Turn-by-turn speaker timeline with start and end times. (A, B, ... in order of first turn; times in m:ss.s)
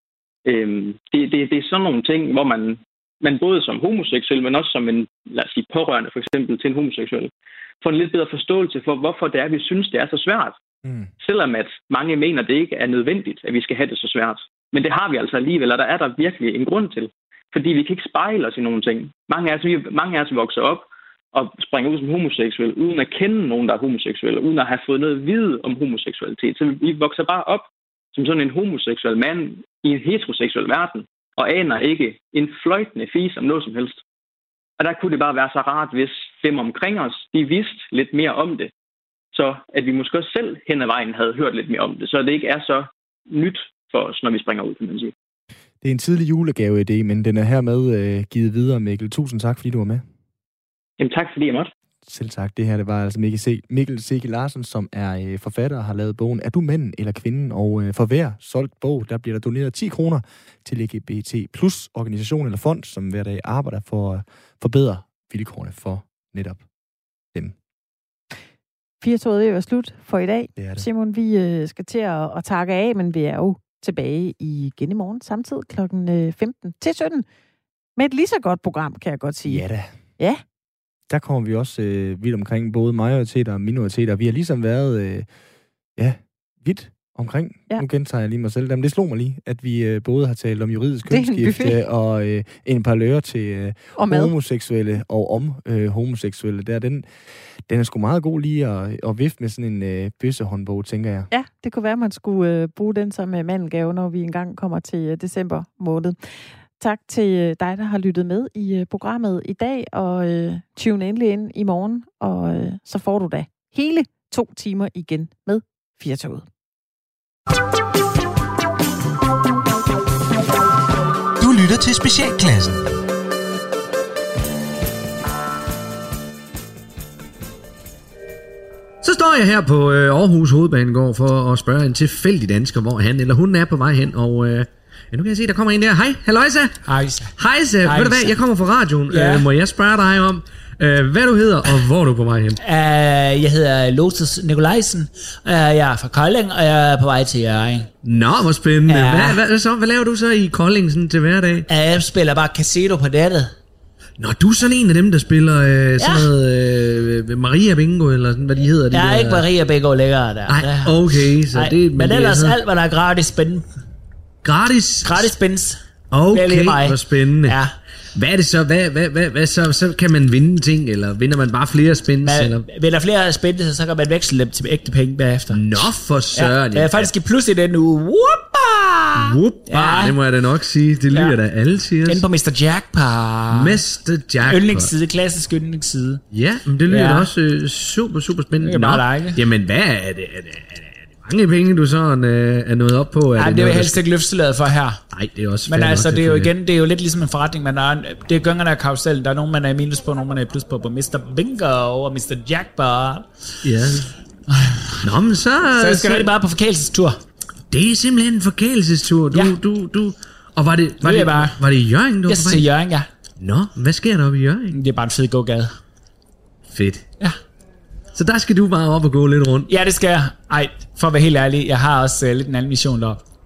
0:00.4-0:07.3 A
0:07.8-0:10.6 A
0:10.8-0:11.1 B
0:11.2-0:34.0 A
0:34.8-0:38.7 A
0:39.3-0:45.1 A
0:45.8-0:50.0 B
0:51.0-0:51.7 A
0:52.0-1:06.6 B
1:09.0-1:17.2 C
1:10.6-1:10.8 B
1:18.0-1:19.6 C
1:19.4-1:19.9 B
1:21.1-1:25.3 B
1:26.0-1:37.1 B
1:31.1-1:31.8 C
1:34.0-1:34.3 C
1:37.6-1:41.3 B
1:41.3-1:56.4 C
2:01.4-2:02.8 D
2:09.0-2:16.8 D
2:16.9-2:17.3 E
2:17.4-2:22.6 D
2:17.8-2:18.4 E
2:19.1-2:19.5 E
2:22.6-2:27.9 E
2:28.0-2:31.6 D
2:28.9-2:29.4 E
2:31.7-2:33.5 E
2:34.2-2:39.5 D
2:36.0-2:36.3 E
2:38.9-2:43.6 E
2:40.5-2:42.6 D
2:44.4-2:45.3 D
2:45.0-2:45.8 E
2:46.1-2:47.6 D
2:46.3-2:47.7 E
2:48.1-2:52.6 D
2:52.2-2:55.7 E
2:55.5-2:57.1 D
2:56.3-3:00.2 E
2:59.1-3:02.2 D
3:01.1-3:01.4 E
3:02.0-3:03.8 E
3:03.5-3:04.9 D
3:04.4-3:06.2 E
3:06.3-3:14.0 D
3:06.8-3:07.3 E
3:08.6-3:09.4 E
3:13.4-3:15.0 E
3:15.1-3:16.5 D
3:15.6-3:23.3 E
3:23.6-3:24.1 D
3:24.5-3:25.1 E
3:25.0-3:26.3 D
3:25.6-3:27.2 E
3:27.7-3:32.7 D
3:29.3-3:29.6 E
3:31.0-3:31.6 E
3:32.2-3:33.1 E
3:33.4-3:34.8 D
3:34.7-3:35.7 E
3:36.7-3:37.1 D
3:38.1-3:39.7 D
3:39.7-3:43.2 E